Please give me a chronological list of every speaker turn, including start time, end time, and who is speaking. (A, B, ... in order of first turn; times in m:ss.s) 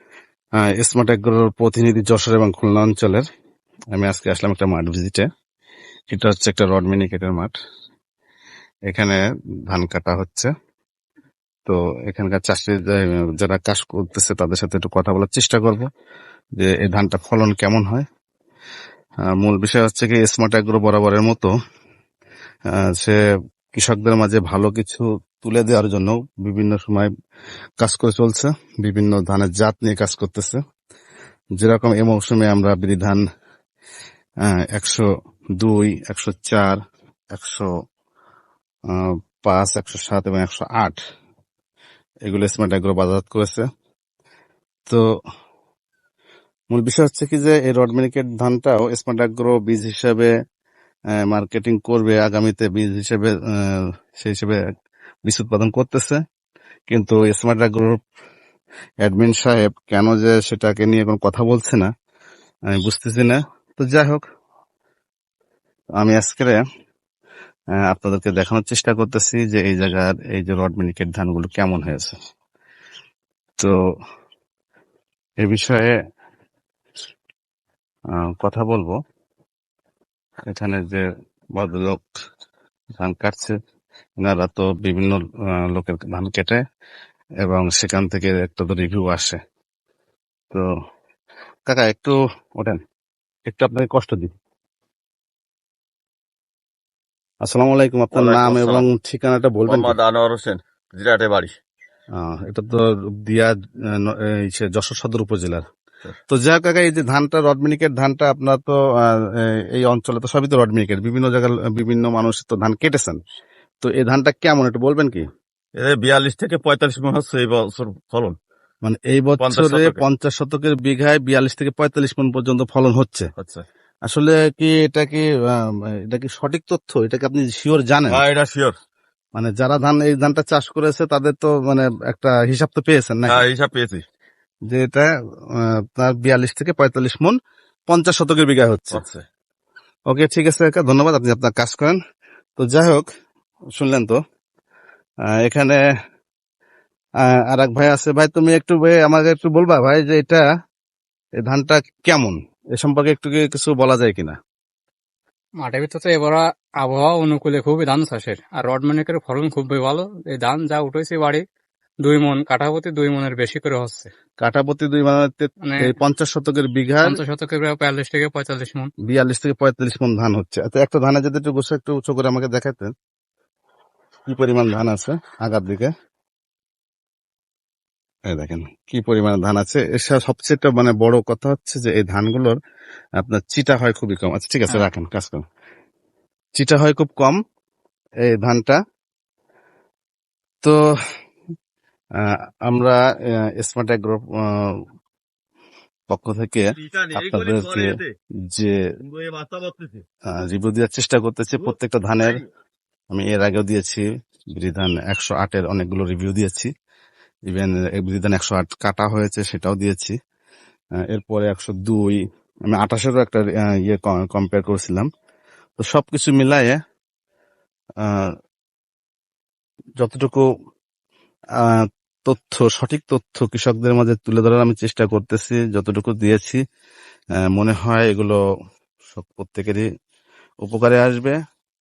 0:00.6-0:03.2 A
0:03.9-0:05.2 A
0:06.1-0:07.5 A
0:08.9-0:10.5 A
0:11.7-0:15.8 A
0:16.6-0:18.0 A
0:19.3-0:21.5 A
0:22.8-0:23.2 A
0:23.8-0:27.1 A
0:27.8-0:30.6 A
0:31.6-0:33.2 A
0:34.5-0:35.0 A
0:35.6-0:36.8 A
0:37.3-0:37.7 A
0:38.9-0:41.0 A
0:42.2-0:43.6 A
0:46.7-0:50.3 A
0:51.2-0:54.6 A
0:55.2-0:56.2 A
0:56.9-0:58.0 A
0:59.0-1:01.9 A
1:02.8-1:04.2 A
1:06.0-1:06.6 A
1:07.8-1:12.2 A
1:15.4-1:15.9 A
1:18.2-1:19.0 A
1:20.5-1:21.0 A
1:21.6-1:22.0 A
1:23.0-1:23.5 A
1:24.2-1:26.6 A
1:27.4-1:29.4 A
1:31.7-1:32.8 A
1:33.5-1:34.3 A
1:37.4-1:39.9 A
1:38.1-1:38.9 B
1:39.7-1:41.5 B
1:42.2-1:45.6 A
1:46.3-1:53.2 A
1:53.8-1:55.2 A
1:55.8-1:58.4 B
1:58.8-2:03.3 A
1:59.4-2:00.0 B
2:03.4-2:03.6 B
2:04.0-2:08.2 A
2:08.1-2:08.7 B
2:09.4-2:13.4 A
2:13.3-2:14.0 B
2:14.7-2:17.4 A
2:17.9-2:19.0 A
2:18.9-2:19.2 B
2:20.1-2:22.0 A
2:22.6-2:23.1 A
2:23.8-2:24.2 A
2:25.3-2:25.8 A
2:27.2-2:30.4 A
2:31.4-2:34.4 A
2:35.6-2:41.4 C
2:42.0-2:44.1 C
2:44.4-2:47.2 A
2:47.0-2:48.9 C
2:49.1-2:52.9 A
2:54.3-2:55.9 A
2:58.3-3:02.6 A
3:03.2-3:05.4 A
3:06.6-3:07.4 A
3:08.3-3:08.8 A
3:12.7-3:13.0 A
3:13.6-3:14.8 A
3:16.1-3:18.0 A
3:16.8-3:18.1 B
3:19.0-3:20.0 B
3:20.3-3:22.4 A
3:21.6-3:22.4 B
3:23.1-3:24.0 A
3:24.5-3:26.7 A
3:27.5-3:30.1 A
3:31.1-3:35.1 A
3:35.8-3:36.8 A
3:38.0-3:38.3 A
3:40.0-3:40.4 A
3:41.6-3:46.6 A
3:47.4-3:48.4 A
3:49.1-3:49.9 A
3:50.6-3:51.4 A